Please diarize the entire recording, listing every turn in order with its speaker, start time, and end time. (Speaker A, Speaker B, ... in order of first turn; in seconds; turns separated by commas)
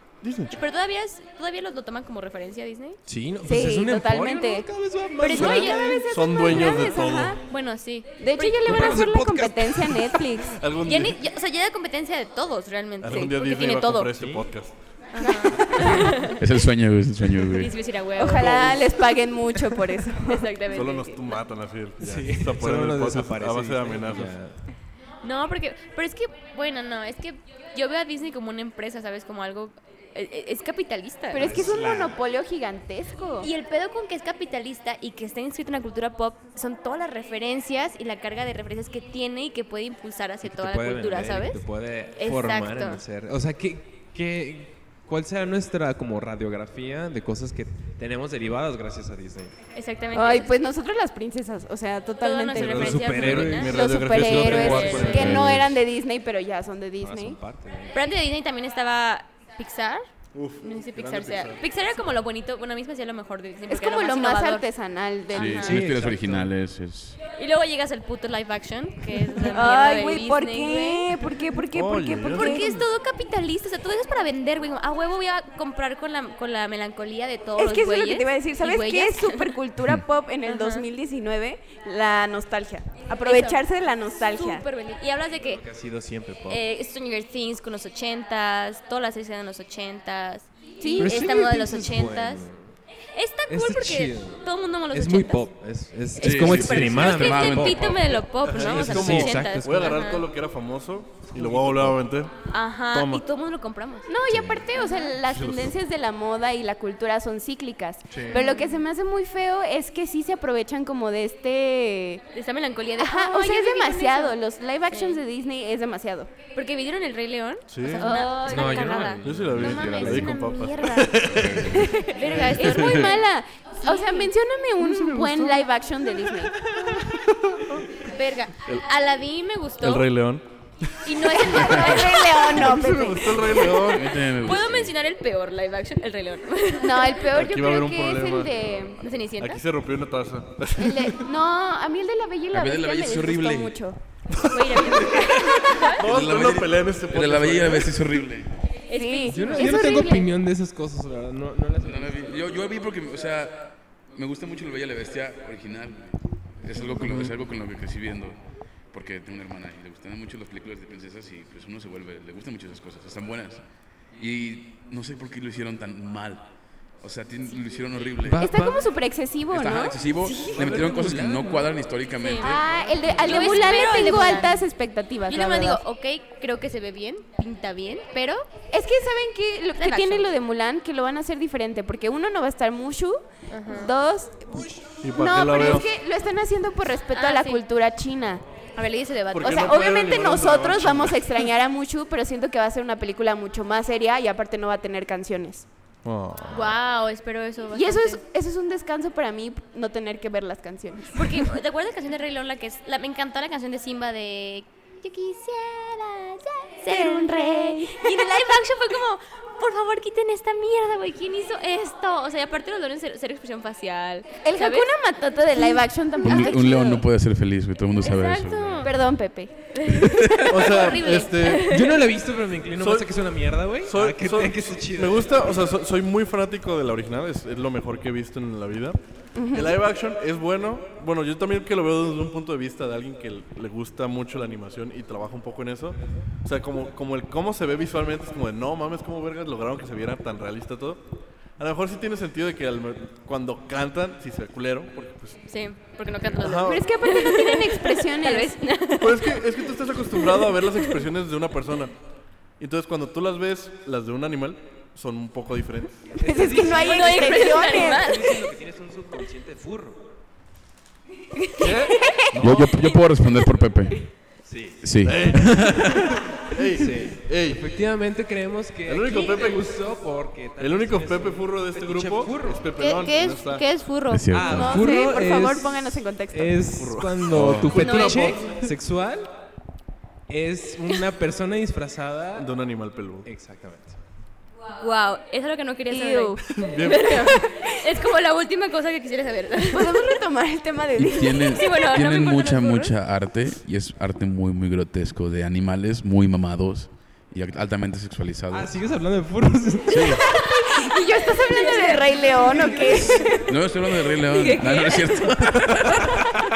Speaker A: 0.2-0.6, Speaker B: 0.5-3.0, Speaker C: 3.0-6.8, Speaker D: 3.4-7.4, Speaker B: 5.2-5.8, Speaker A: 5.4-7.4, Speaker B: 7.4-9.0, Speaker D: 8.2-10.6, Speaker C: 8.6-10.2, Speaker A: 8.8-9.0, Speaker A: 10.5-11.2, Speaker B: 10.8-14.2, Speaker A: 13.0-14.7, Speaker C: 14.1-14.5, Speaker B: 15.1-16.4, Speaker D: 15.2-16.1, Speaker E: 16.3-17.7, Speaker B: 17.5-18.6, Speaker D: 18.2-20.5, Speaker A: 18.2-18.9, Speaker B: 20.2-21.4, Speaker A: 20.7-24.4, Speaker C: 22.0-24.6, Speaker B: 25.2-31.7, Speaker D: 31.3-33.5, Speaker C: 31.4-32.2, Speaker B: 33.4-41.6, Speaker C: 40.4-49.5, Speaker B: 42.1-43.0, Speaker B: 49.7-50.5, Speaker D: 50.1-53.0, Speaker B: 52.2-53.8, Speaker A: 52.5-55.6, Speaker C: 52.7-55.7, Speaker D: 53.6-57.4, Speaker B: 54.4-55.3, Speaker E: 54.9-55.8, Speaker C: 57.0-58.0, Speaker B: 57.9-60.1, Speaker A: 60.3-61.6, Speaker B: 60.6-64.7, Speaker D: 63.7-65.7, Speaker B: 65.3-65.8, Speaker E: 65.3-67.2, Speaker C: 65.6-66.5, Speaker B: 67.3-71.1, Speaker D: 69.5-72.7, Speaker A: 71.7-72.8, Speaker B: 72.3-79.5, Speaker D: 77.6-84.6, Speaker B: 80.4-80.8, Speaker B: 83.2-83.6, Speaker B: 84.2-85.6, Speaker C: 85.4-86.6, Speaker B: 86.5-92.4, Speaker D: 90.8-91.3, Speaker C: 91.0-92.7, Speaker B: 93.1-95.5, Speaker C: 93.5-98.0, Speaker B: 96.2-100.2, Speaker E: 96.2-98.1, Speaker A: 98.4-102.4, Speaker C: 98.6-100.0, Speaker C: 101.3-102.0, Speaker B: 102.5-104.1, Speaker A: 102.9-103.2, Speaker D: 104.1-112.2, Speaker C: 104.3-104.7, Speaker B: 104.7-105.1, Speaker A: 105.2-105.7, Speaker A: 108.1-108.4, Speaker B: 108.3-108.8, Speaker B: 112.3-115.2, Speaker D: 113.0-116.3, Speaker B: 116.5-123.2, Speaker A: 117.7-118.2, Speaker D: 118.0-118.8, Speaker C: 118.4-120.2, Speaker E: 119.0-120.4, Speaker A: 119.2-122.7, Speaker E: 121.4-121.9, Speaker D: 121.7-126.5, Speaker E: 122.7-123.1, Speaker B: 123.8-124.3, Speaker A: 124.8-127.8, Speaker B: 128.0-130.1, Speaker A: 129.8-131.9, Speaker B: 131.0-132.5, Speaker D: 131.2-133.7, Speaker E: 131.7-132.0, Speaker A: 132.5-134.3, Speaker B: 133.6-137.2, Speaker E: 133.8-134.9, Speaker D: 136.8-139.0, Speaker A: 137.3-138.8, Speaker B: 139.0-139.6, Speaker A: 139.4-141.3, Speaker D: 140.8-144.0, Speaker E: 142.5-143.8, Speaker A: 144.3-148.3, Speaker B: 144.5-146.0, Speaker D: 144.5-145.9, Speaker E: 144.9-145.3, Speaker E: 145.9-148.6, Speaker B: 148.9-150.2, Speaker D: 148.9-150.3, Speaker C: 149.3-152.3, Speaker E: 151.8-166.5, Speaker A: 157.0-157.3, Speaker E: 167.0-168.5, Speaker C: 168.2-168.9, Speaker D: 168.4-170.0, Speaker E: 169.5-172.8, Speaker B: 170.2-171.6, Speaker C: 170.4-171.7, Speaker B: 172.1-174.6, Speaker D: 172.4-175.8, Speaker E: 173.3-173.6, Speaker B: 175.3-178.5, Speaker D: 178.7-188.4, Speaker B: 179.8-180.3, Speaker B: 183.5-183.9, Speaker A: 185.0-185.9, Speaker B: 187.1-187.6, Speaker B: 188.8-189.9, Speaker A: 189.3-191.3, Speaker D: 189.4-195.7, Speaker A: 196.0-196.7, Speaker B: 196.5-198.2, Speaker D: 197.7-201.5, Speaker B: 201.1-214.9, Speaker D: 206.9-208.3, Speaker D: 214.4-217.1, Speaker B: 215.6-216.5, Speaker E: 216.2-218.9, Speaker B: 218.0-218.9, Speaker D: 218.8-219.5, Speaker B: 219.7-222.0, Speaker A: 220.5-221.7, Speaker C: 221.7-225.5, Speaker A: 222.8-223.2, Speaker A: 223.8-229.0, Speaker D: 229.3-229.8, Speaker A: 229.5-241.0, Speaker A: 241.6-245.4, Speaker B: 245.4-250.9, Speaker A: 246.3-246.9, Speaker D: 246.6-248.6, Speaker A: 249.0-251.9, Speaker A: 252.6-256.0, Speaker C: 256.2-260.0, Speaker D: 256.2-258.1, Speaker B: 256.7-258.4, Speaker B: 261.4-261.8, Speaker A: 261.6-262.6, Speaker D: 262.0-262.9, Speaker E: 262.4-264.0, Speaker C: 264.4-265.4, Speaker E: 264.8-265.9, Speaker A: 265.0-267.6, Speaker C: 266.7-272.6, Speaker A: 268.9-269.6, Speaker A: 270.6-273.7, Speaker B: 272.8-274.4, Speaker E: 274.1-274.9, Speaker C: 274.3-279.3, Speaker D: 274.5-276.7, Speaker A: 276.7-278.7, Speaker E: 277.3-277.7, Speaker B: 277.7-278.4, Speaker C: 280.3-282.5, Speaker A: 282.4-283.3, Speaker C: 283.2-284.0, Speaker B: 284.8-290.1, Speaker D: 285.9-287.6, Speaker A: 286.5-287.4, Speaker D: 289.7-291.8, Speaker E: 291.0-298.7, Speaker B: 291.4-292.9, Speaker C: 298.5-300.2, Speaker E: 299.9-300.2, Speaker D: 300.1-303.6, Speaker B: 300.4-303.4, Speaker C: 302.4-303.3, Speaker E: 303.2-306.3, Speaker B: 304.1-306.3